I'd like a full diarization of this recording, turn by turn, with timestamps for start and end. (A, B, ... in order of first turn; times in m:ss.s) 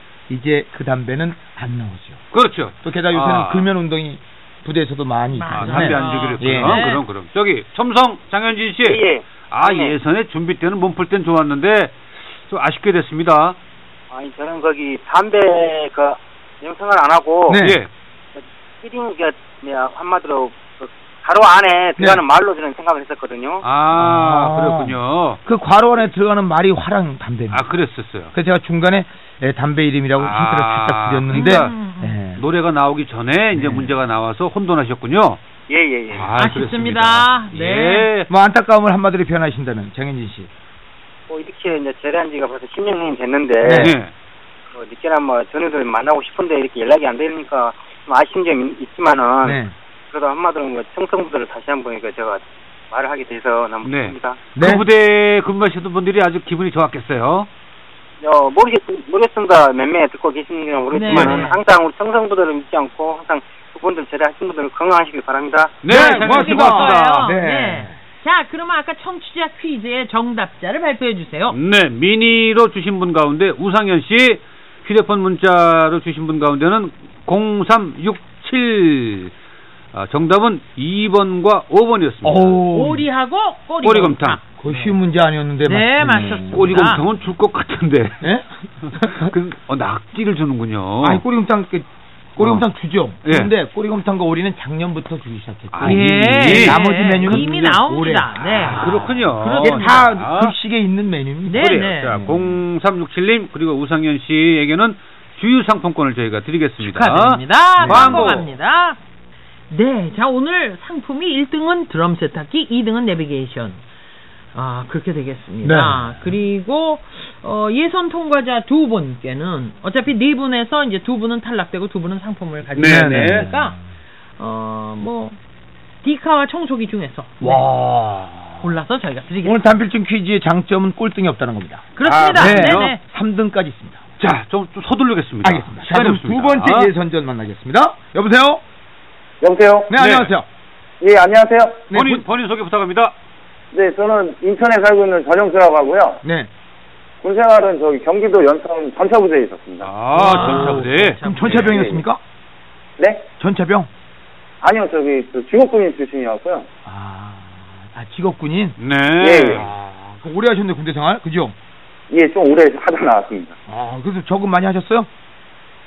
0:00.3-0:02.2 A
0:02.3-0:03.7 B
0:02.8-0:06.8 A
0:05.4-0:07.0 C
0:05.5-0:13.6 B
0:08.8-0:10.0 D
0:14.1-0:17.6 D
0:17.5-0:17.8 A
0:17.6-0:17.9 B
0:18.4-0:23.6 D
0:23.6-0:25.4 B
0:24.0-0:27.7 A
0:27.5-0:28.3 B
0:28.3-0:32.4 A
0:30.2-0:31.7 B
0:31.3-0:32.2 C
0:32.4-0:35.4 B
0:33.6-0:34.0 A
0:35.7-0:36.3 D
0:36.1-0:38.3 B
0:36.4-0:38.1 C
0:38.3-0:40.5 A
0:41.3-0:44.0 D
0:43.6-0:44.0 A
0:43.8-0:44.1 B
0:44.7-0:54.5 D
0:49.4-0:49.7 A
0:53.8-0:57.5 B
0:54.6-0:54.8 A
0:58.2-1:05.8 D
1:00.9-1:01.6 C
1:01.1-1:01.4 A
1:05.8-1:07.3 B
1:05.9-1:08.0 A
1:05.9-1:11.6 C
1:11.5-1:19.3 B
1:19.9-1:22.6 B
1:22.2-1:23.0 A
1:22.7-1:24.8 C
1:23.8-1:24.4 B
1:24.6-1:26.8 A
1:25.6-1:27.0 C
1:26.5-1:28.3 B
1:28.2-1:29.3 A
1:28.9-1:31.2 B
1:31.0-1:42.6 A
1:32.4-1:32.6 B
1:33.2-1:33.5 B
1:35.7-1:37.8 B
1:35.8-1:40.0 C
1:38.6-1:40.5 B
1:41.5-1:42.2 C
1:41.6-1:48.5 B
1:46.8-1:49.0 C
1:47.8-1:48.4 A
1:49.7-1:53.8 C
1:54.6-2:03.8 C
1:55.6-1:56.3 A
2:02.7-2:03.5 B
2:02.8-2:03.7 A
2:04.4-2:05.4 C
2:06.0-2:07.7 C
2:07.4-2:08.7 A
2:08.6-2:09.6 C
2:09.4-2:14.0 A
2:12.0-2:13.0 C
2:12.0-2:13.0 B
2:14.2-2:16.9 B
2:15.4-2:18.6 A
2:19.4-2:19.9 E
2:19.9-2:20.5 A
2:20.0-2:20.3 B
2:21.0-2:21.9 E
2:21.9-2:22.2 A
2:21.9-2:23.1 B
2:23.7-2:26.2 E
2:26.2-2:26.5 A
2:27.2-2:29.9 E
2:29.8-2:31.8 B
2:30.1-2:31.8 C
2:30.2-2:32.2 A
2:31.6-2:32.0 E
2:33.0-2:33.3 E
2:33.4-2:33.9 A
2:34.6-2:36.7 E
2:36.8-2:38.8 A
2:38.8-2:39.6 B
2:39.2-2:39.7 E
2:39.5-2:41.6 A
2:42.1-2:43.6 E
2:43.7-2:45.1 A